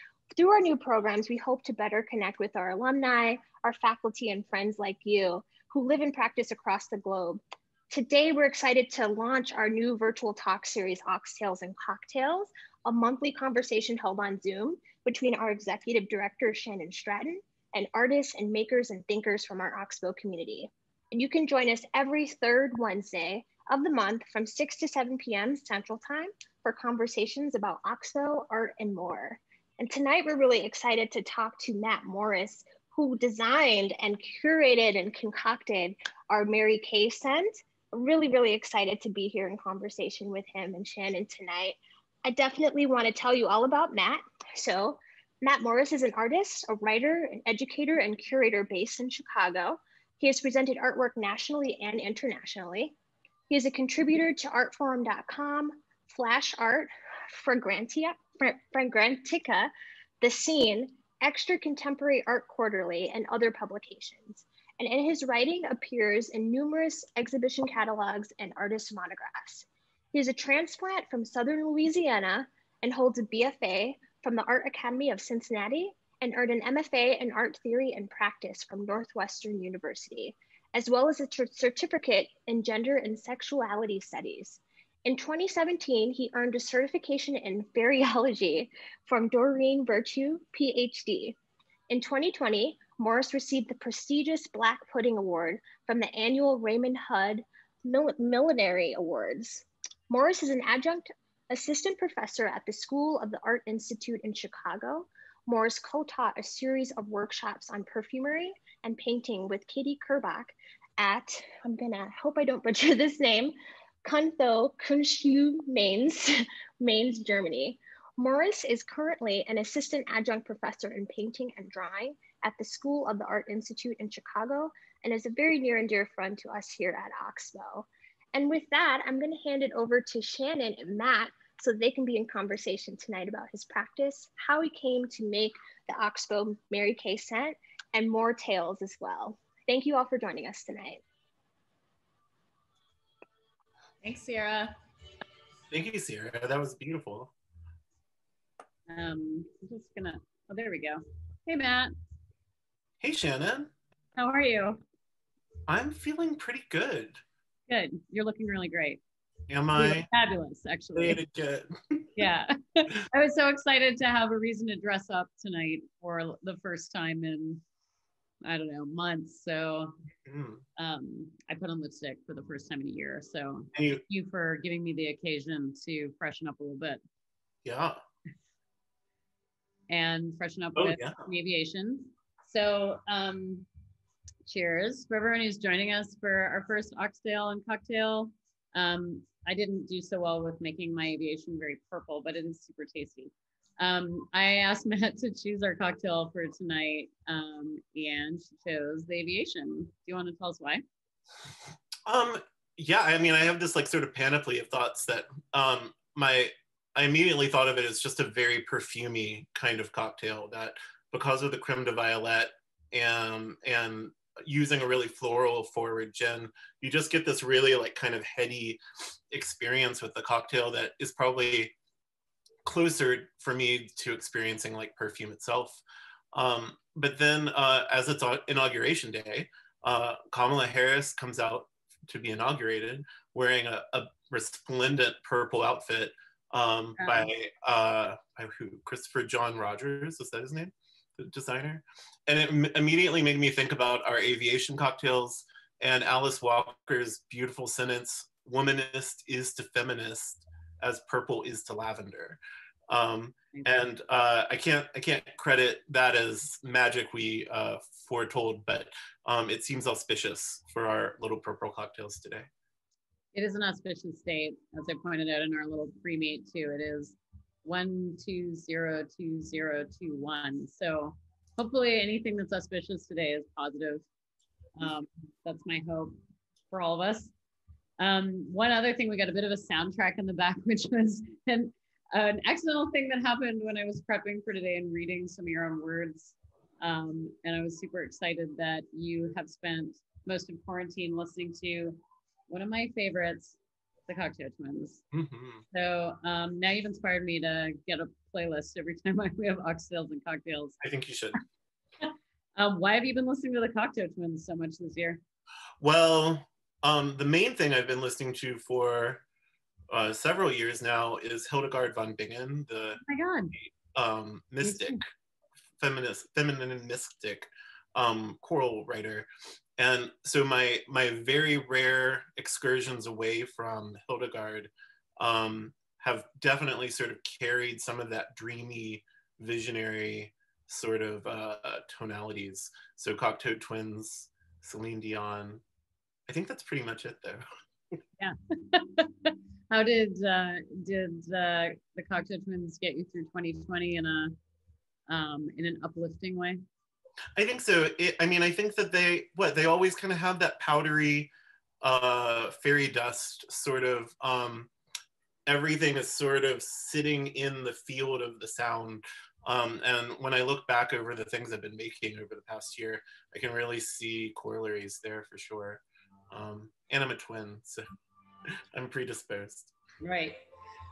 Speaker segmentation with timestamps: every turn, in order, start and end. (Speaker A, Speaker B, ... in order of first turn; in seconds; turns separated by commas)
Speaker A: 0.3-52.9, Speaker A: 53.5-91.4, Speaker A: 91.9-141.0, Speaker B: 144.0-144.7, Speaker C: 145.7-147.3, Speaker B: 148.9-151.9, Speaker C: 153.0-153.7, Speaker B: 154.2-154.8, Speaker C: 155.7-157.2, Speaker B: 157.7-159.0, Speaker C: 159.5-160.1, Speaker B: 159.8-161.2, Speaker C: 160.9-162.1, Speaker B: 162.2-167.6, Speaker B: 168.4-169.9, Speaker C: 170.2-170.6, Speaker B: 170.8-177.0, Speaker C: 173.7-174.0, Speaker C: 177.6-178.0, Speaker B: 179.9-183.7, Speaker C: 180.8-181.2, Speaker B: 184.4-200.8, Speaker C: 202.1-221.7, Speaker C: 222.6-225.8, Speaker C: 226.3-262.5, Speaker B: 237.0-237.3, Speaker B: 263.3-274.0, Speaker B: 274.8-276.2, Speaker B: 276.7-277.3, Speaker B: 278.0-295.0, Speaker C: 295.1-295.6, Speaker B: 295.7-300.8, Speaker C: 300.8-301.4, Speaker B: 302.6-305.2, Speaker C: 305.8-309.2, Speaker C: 309.9-313.0, Speaker B: 313.0-313.5, Speaker C: 313.6-315.0, Speaker B: 314.6-315.0, Speaker C: 315.8-335.6, Speaker C: 336.3-337.4, Speaker B: 338.2-344.3, Speaker B: 345.1-346.6, Speaker C: 347.4-354.7, Speaker C: 355.4-367.8, Speaker C: 368.5-369.7, Speaker B: 370.0-370.4